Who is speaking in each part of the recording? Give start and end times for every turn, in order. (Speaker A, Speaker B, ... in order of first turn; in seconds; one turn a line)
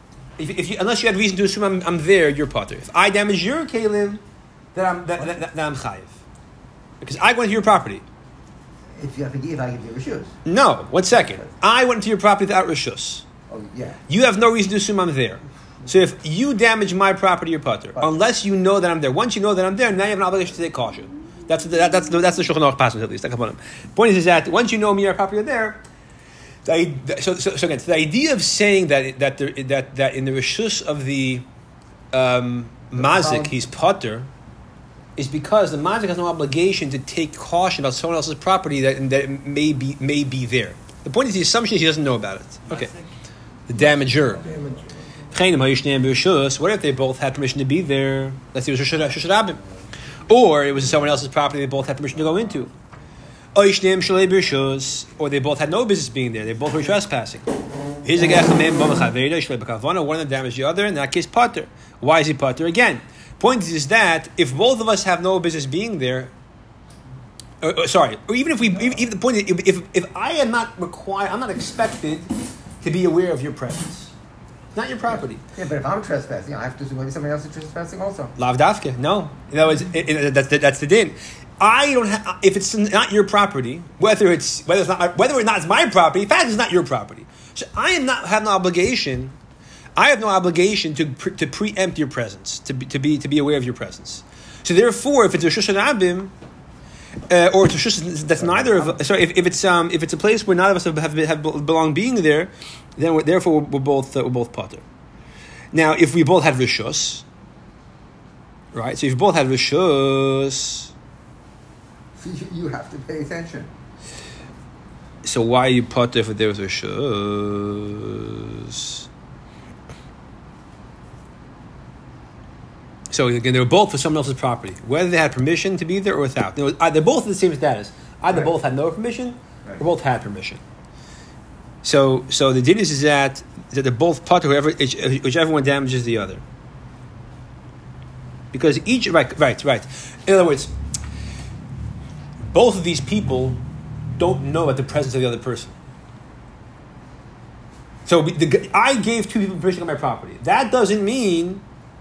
Speaker A: 0.4-4.2
Speaker A: 4.7-6.2
Speaker A: 7.0-8.0
Speaker B: 9.0-10.3
Speaker A: 10.4-13.2
Speaker B: 13.5-14.0
Speaker A: 14.1-25.8
Speaker A: 26.6-31.4
Speaker A: 32.1-34.3
Speaker B: 32.9-33.5
Speaker A: 35.1-42.9
Speaker A: 43.7-44.6
Speaker B: 44.5-44.9
Speaker A: 45.3-49.6
Speaker A: 50.3-52.7
Speaker A: 53.5-57.5
Speaker A: 58.0-66.3
Speaker A: 67.6-72.3
Speaker A: 72.8-74.1
Speaker A: 74.7-75.4
Speaker B: 75.5-78.3
Speaker A: 78.4-89.3
Speaker A: 90.0-96.3
Speaker A: 97.3-104.8
Speaker B: 98.5-98.8
Speaker A: 105.7-107.2
Speaker A: 108.7-110.9
Speaker B: 112.2-113.7
Speaker A: 115.2-119.0
Speaker A: 123.1-130.6
Speaker A: 131.8-136.4
Speaker A: 138.5-140.7
Speaker A: 142.4-143.6
Speaker A: 144.2-145.7
Speaker A: 148.1-151.6